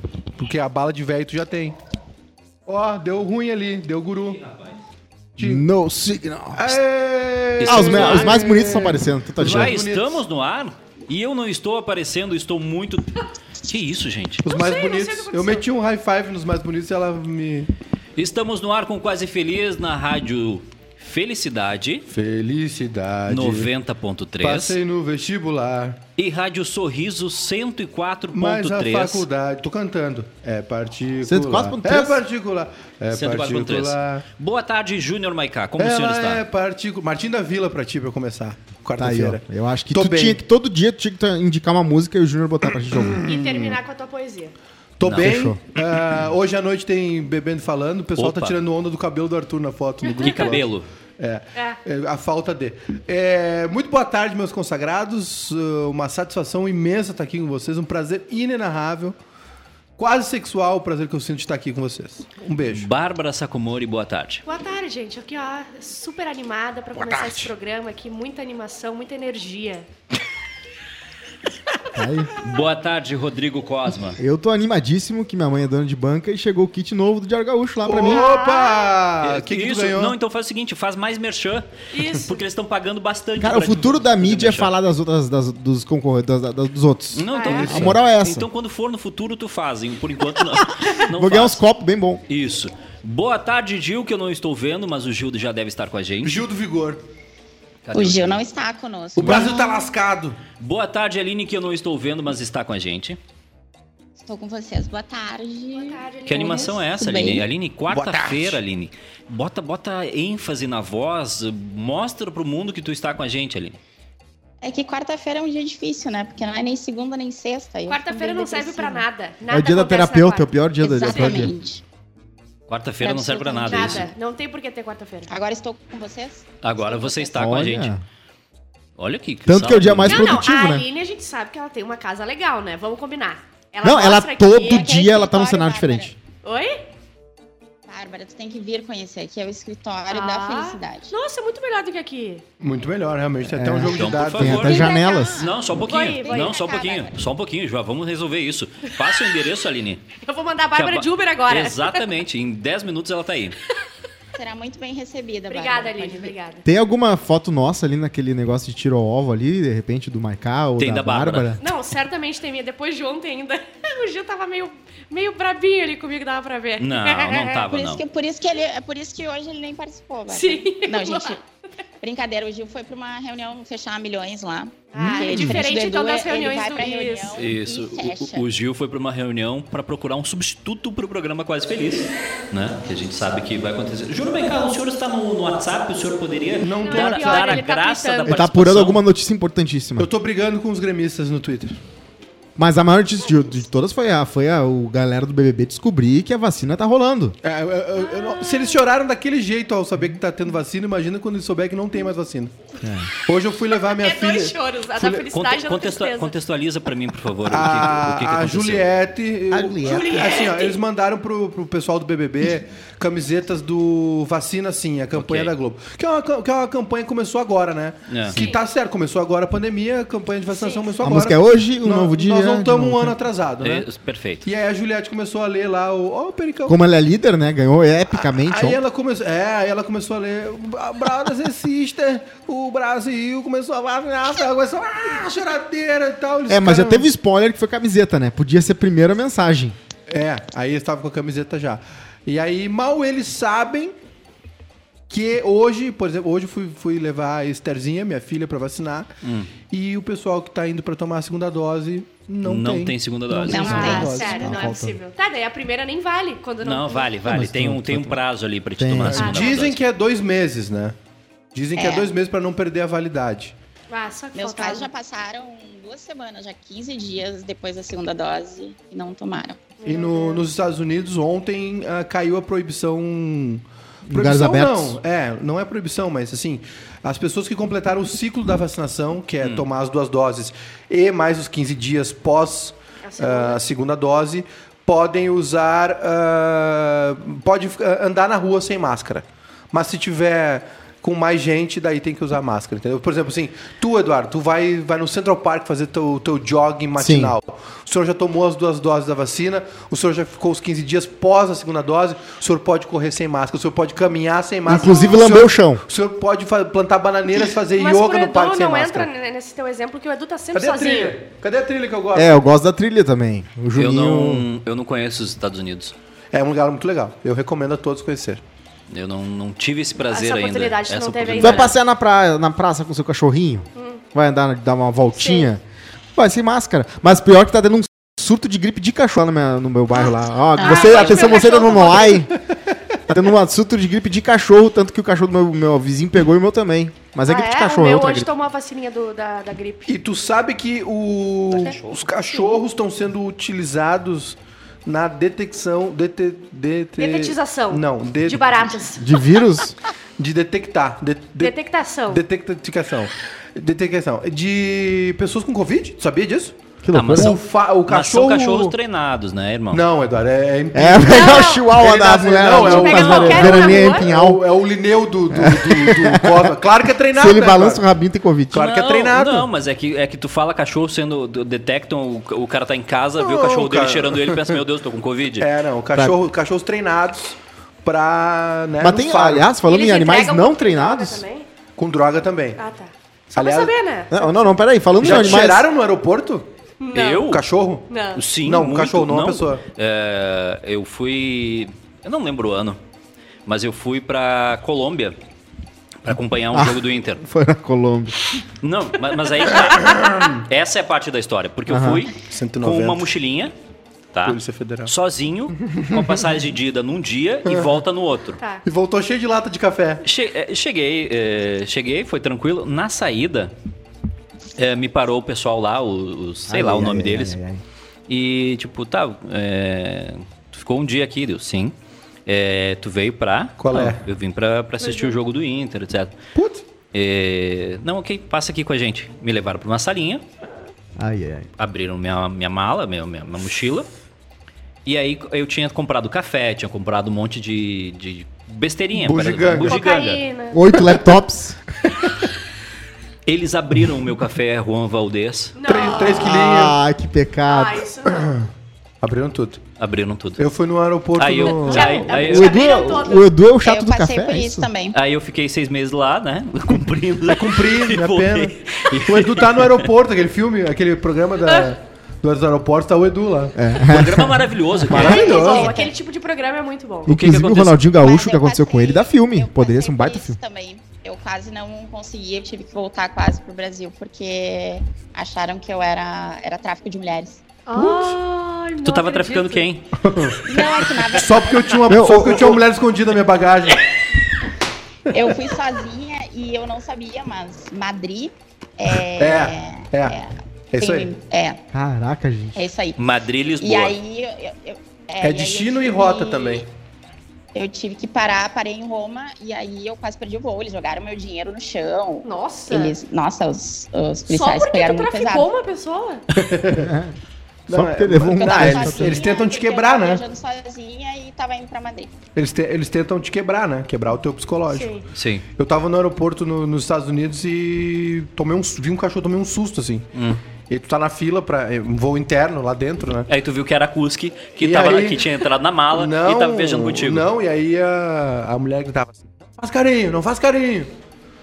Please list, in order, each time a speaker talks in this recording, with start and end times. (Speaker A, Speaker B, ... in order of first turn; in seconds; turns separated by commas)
Speaker A: 0.4-1.8, Speaker A: 2.7-4.4, Speaker A: 5.3-5.6, Speaker B: 5.4-6.8, Speaker A: 6.5-10.2, Speaker C: 7.6-8.4, Speaker B: 7.6-9.8, Speaker C: 9.4-14.4, Speaker A: 14.4-17.7, Speaker D: 14.4-15.6, Speaker C: 18.1-22.0, Speaker A: 22.1-23.7, Speaker C: 23.3-24.8, Speaker A: 24.4-26.0, Speaker C: 26.2-29.2, Speaker A: 28.3-34.2, Speaker B: 31.2-32.2, Speaker C: 33.1-36.4, Speaker A: 35.8-40.4, Speaker B: 39.0-43.3, Speaker A: 43.1-43.6, Speaker D: 43.2-44.5, Speaker A: 45.0-50.7, Speaker B: 45.1-45.6, Speaker C: 48.2-48.5, Speaker C: 50.2-50.9, Speaker A: 51.2-59.1, Speaker A: 60.0-62.9, Speaker C: 62.7-64.4, Speaker D: 64.4-69.9, Speaker A: 66.9-67.5, Speaker B: 71.9-72.3, Speaker C: 72.4-74.2, Speaker B: 74.2-78.3, Speaker A: 77.8-80.2, Speaker D: 78.0-78.9, Speaker C: 79.2-84.7, Speaker D: 81.9-82.3, Speaker B: 83.4-88.5, Speaker C: 87.1-91.6, Speaker D: 87.3-87.8, Speaker B: 90.7-92.2, Speaker C: 92.3-96.4, Speaker A: 96.2-97.0, Speaker C: 97.8-98.4, Speaker E: 97.9-99.7, Speaker A: 99.1-100.4, Speaker B: 99.2-99.5, Speaker C: 100.6-103.2, Speaker E: 104.2-106.1, Speaker D: 105.7-106.8, Speaker C: 106.3-113.8, Speaker E: 107.0-107.5, Speaker A: 107.9-108.6, Speaker E: 114.6-119.0, Speaker D: 117.9-121.5, Speaker B: 119.5-121.5, Speaker E: 120.8-121.8, Speaker C: 122.7-124.1, Speaker E: 123.0-124.1, Speaker D: 123.7-125.3, Speaker E: 125.3-127.5, Speaker C: 126.6-127.9, Speaker B: 127.3-128.0, Speaker C: 129.0-130.4, Speaker B: 129.4-130.8, Speaker D: 130.0-135.0, Speaker B: 133.8-136.1, Speaker E: 134.6-136.1, Speaker D: 136.4-136.8, Speaker E: 137.9-141.1, Speaker D: 140.1-142.4, Speaker A: 142.6-144.6, Speaker B: 143.5-145.4, Speaker C: 143.8-150.0, Speaker E: 144.4-147.2, Speaker D: 145.8-146.7, Speaker D: 150.2-152.1, Speaker C: 150.7-153.6, Speaker E: 154.3-156.3, Speaker D: 155.5-156.6, Speaker B: 156.6-161.6, Speaker C: 160.8-161.6, Speaker D: 161.6-167.6, Speaker C: 166.8-168.0, Speaker E: 167.7-171.4, Speaker D: 170.3-171.4, Speaker E: 172.0-178.4, Speaker D: 174.9-177.4, Speaker C: 175.2-175.5, Speaker C: 177.3-189.0, Speaker A: 186.6-187.6, Speaker D: 186.8-188.4, Speaker B: 188.2-190.1, Speaker A: 190.0-191.8, Speaker B: 192.6-197.3, Speaker A: 197.4-202.5, Speaker D: 198.1-198.8, Speaker B: 202.8-203.1, Speaker A: 203.2-205.3, Speaker D: 203.7-206.3, Speaker C: 205.3-208.9, Speaker A: 207.4-223.8, Speaker B: 209.5-210.3, Speaker D: 209.8-210.8, Speaker C: 215.1-215.5, Speaker C: 218.1-218.4, Speaker D: 218.3-218.6, Speaker D: 220.5-220.9, Speaker B: 221.0-223.2, Speaker C: 223.6-224.5, Speaker A: 224.4-226.8, Speaker B: 226.7-228.8, Speaker A: 228.1-237.1, Speaker B: 236.5-239.8, Speaker A: 240.1-243.9, Speaker A: 245.1-254.6, Speaker C: 249.2-249.5, Speaker C: 252.4-253.9, Speaker E: 253.5-254.3, Speaker B: 253.6-255.0, Speaker D: 253.6-257.1, Speaker C: 256.6-259.8, Speaker B: 257.2-258.2, Speaker B: 258.8-259.4, Speaker D: 259.2-259.5, Speaker A: 259.2-260.9, Speaker A: 261.5-263.5, Speaker E: 261.8-262.1, Speaker D: 263.9-264.9, Speaker E: 264.3-269.6, Speaker D: 269.8-270.4, Speaker A: 269.8-309.1, Speaker B: 274.1-275.0, Speaker C: 279.4-279.7, Speaker D: 283.0-283.6, Speaker B: 297.0-297.3, Speaker B: 304.7-305.8, Speaker D: 304.7-305.1, Speaker D: 307.7-311.2, Speaker A: 310.5-312.3, Speaker B: 312.1-314.4, Speaker C: 313.8-315.9, Speaker A: 316.3-318.4, Speaker C: 318.9-321.7, Speaker D: 320.0-321.7, Speaker B: 321.4-325.6, Speaker D: 323.8-324.0, Speaker D: 325.1-325.5, Speaker B: 326.1-332.4, Speaker E: 330.0-331.4, Speaker D: 330.6-332.3, Speaker B: 333.1-338.3, Speaker D: 337.2-340.0, Speaker A: 339.9-348.8, Speaker C: 341.5-342.0, Speaker D: 347.0-349.1, Speaker B: 349.0-349.8, Speaker A: 350.2-351.5, Speaker D: 351.4-352.2, Speaker A: 352.1-356.6, Speaker B: 356.8-357.3, Speaker C: 356.9-359.8, Speaker A: 357.1-358.7, Speaker A: 359.7-367.8, Speaker B: 360.7-364.4, Speaker D: 361.0-361.7, Speaker D: 362.6-364.1, Speaker B: 365.3-366.5, Speaker B: 367.1-368.7, Speaker A: 368.5-369.4, Speaker C: 368.5-375.5, Speaker A: 373.2-374.5, Speaker A: 375.4-379.5, Speaker B: 378.8-381.2, Speaker D: 379.6-381.5, Speaker A: 381.8-382.6, Speaker D: 382.6-384.2, Speaker A: 383.4-383.7, Speaker B: 384.1-385.7, Speaker A: 385.0-386.5, Speaker C: 385.0-385.6, Speaker D: 386.8-387.3, Speaker C: 386.9-387.4, Speaker A: 387.2-387.9, Speaker D: 387.9-388.2, Speaker C: 388.1-392.8, Speaker A: 388.4-389.6, Speaker C: 393.4-395.1, Speaker C: 396.0-397.2, Speaker B: 396.5-398.1, Speaker C: 398.6-403.5, Speaker A: 399.9-400.3, Speaker B: 401.7-402.1, Speaker A: 402.2-403.1, Speaker C: 404.1-408.4, Speaker A: 404.2-404.9, Speaker A: 408.6-410.0, Speaker C: 410.0-413.5, Speaker C: 414.6-417.4, Speaker B: 416.5-417.6, Speaker C: 418.1-421.7, Speaker C: 422.2-426.1, Speaker A: 423.6-424.0, Speaker D: 424.8-425.1, Speaker A: 426.3-426.6, Speaker C: 426.9-430.2, Speaker B: 431.0-431.5, Speaker C: 431.6-433.9, Speaker C: 434.8-440.2, Speaker A: 438.9-439.8, Speaker D: 439.6-440.7, Speaker B: 440.5-441.6, Speaker C: 443.2-445.5, Speaker D: 445.6-446.4, Speaker A: 445.6-446.8, Speaker B: 446.2-447.8, Speaker D: 447.5-448.3, Speaker A: 448.1-448.5, Speaker A: 449.0-449.6, Speaker C: 449.8-450.4, Speaker A: 450.4-452.0, Speaker C: 451.2-452.6, Speaker D: 451.6-453.3, Speaker B: 451.8-454.7, Speaker E: 453.6-455.0, Speaker C: 454.9-459.9, Speaker A: 457.3-463.5, Speaker B: 463.5-464.5, Speaker C: 463.8-465.3, Speaker A: 464.9-465.7, Speaker E: 464.9-465.9, Speaker D: 465.0-467.1, Speaker B: 467.1-470.4, Speaker C: 467.1-467.8, Speaker E: 467.9-477.4, Speaker D: 477.6-479.7, Speaker A: 477.7-478.2, Speaker C: 478.8-479.9, Speaker A: 480.0-484.0, Speaker E: 480.5-481.9, Speaker B: 481.9-482.6, Speaker E: 485.1-491.6, Speaker A: 489.1-490.1, Speaker A: 490.7-491.1, Speaker B: 491.7-492.6, Speaker E: 492.6-493.0, Speaker C: 493.0-494.0, Speaker E: 493.6-496.6, Speaker A: 495.2-496.7, Speaker E: 497.5-505.5, Speaker D: 502.2-502.9, Speaker D: 504.3-506.2, Speaker A: 506.3-506.9, Speaker B: 506.7-507.1, Speaker A: 507.7-510.2, Speaker B: 507.7-509.2, Speaker E: 508.1-512.1, Speaker A: 512.3-515.0, Speaker D: 514.7-515.0, Speaker C: 515.1-515.4, Speaker A: 515.5-520.1, Speaker C: 520.1-520.4, Speaker A: 520.7-523.3, Speaker C: 523.3-527.3, Speaker A: 524.6-525.3, Speaker A: 525.9-530.9